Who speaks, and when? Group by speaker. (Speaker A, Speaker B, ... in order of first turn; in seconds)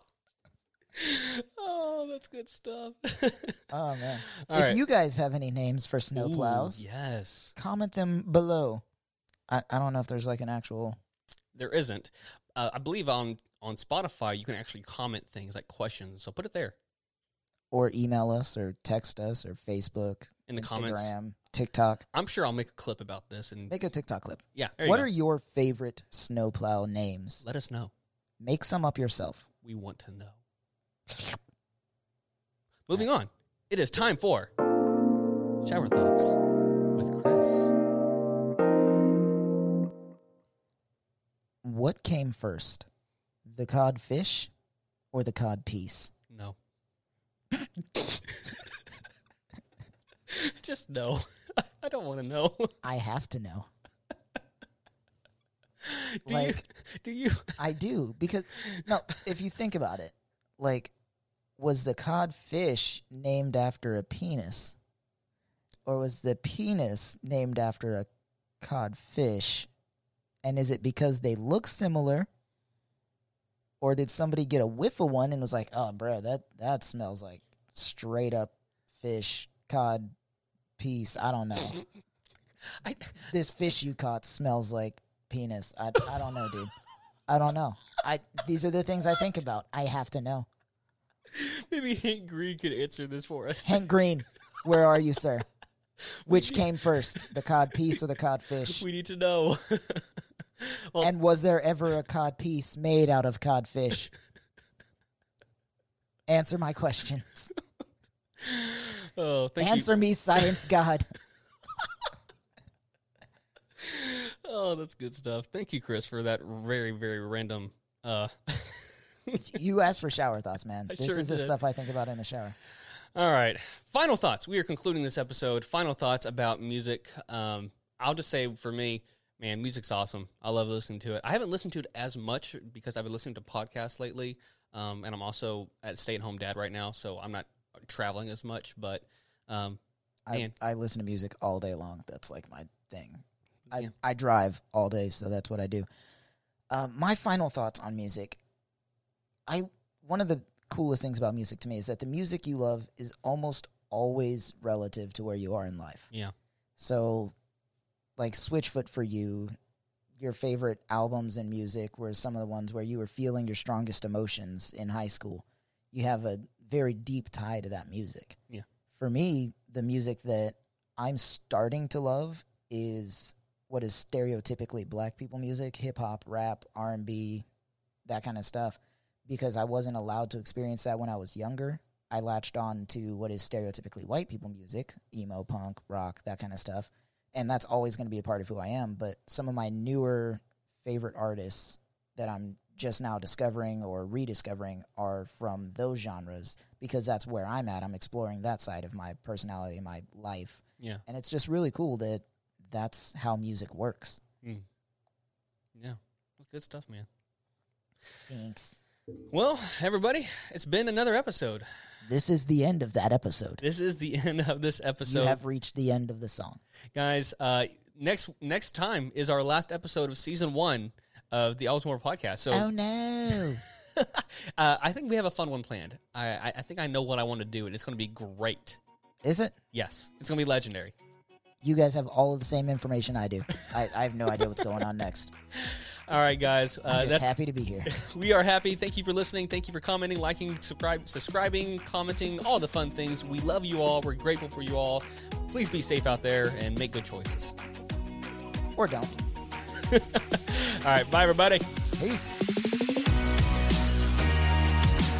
Speaker A: 0.9-3.6, 4.3-4.8, 6.1-7.5, 11.5-16.8, 20.5-21.1, 22.1-23.7, 24.5-25.1, 27.4-27.9, 29.6-30.4, 31.1-31.4, 32.9-34.5, 35.6-36.4, 36.9-37.7, 46.3-46.6, 47.9-48.7, 50.3-52.8, 55.8-57.6, 58.5-58.9, 82.8-83.3, 91.3-93.9, 96.0-97.3, 98.7-101.1, 108.4-110.7, 111.8-112.1, 113.8-119.4, 120.9-121.6, 123.1-139.8, 205.7-207.1, 209.3-211.7, 213.6-215.4, 216.9-222.7, 223.3-228.8, 229.7-230.9, 234.5-234.8, 235.5-237.3, 237.8-247.5, 249.8-251.7
Speaker B: 3.7-6.8, 7.5-8.8, 9.5-11.0, 17.7-22.0, 23.7-27.4, 28.4-29.4, 41.6-42.9, 43.4-44.5, 45.1-46.1, 52.8-53.7, 56.2-56.6, 57.6-60.9, 61.6-64.8, 65.8-68.1, 68.6-69.7, 70.4-72.3, 73.8-80.1, 80.8-81.8, 83.2-86.7, 87.3-90.5, 93.6-95.4, 96.2-98.8, 101.0-104.1, 106.3-107.5, 109.6-111.1, 119.3-122.5, 140.2-145.8, 146.7-148.4, 149.5-156.1, 156.8-157.3, 158.2-159.6, 160.2-168.4, 168.9-177.4, 178.1-204.2, 208.3-208.8, 212.0-213.6, 215.0-216.6, 222.5-223.6, 229.2-229.6, 231.6-235.3, 236.9-237.9, 248.8-249.2, 252.0-252.3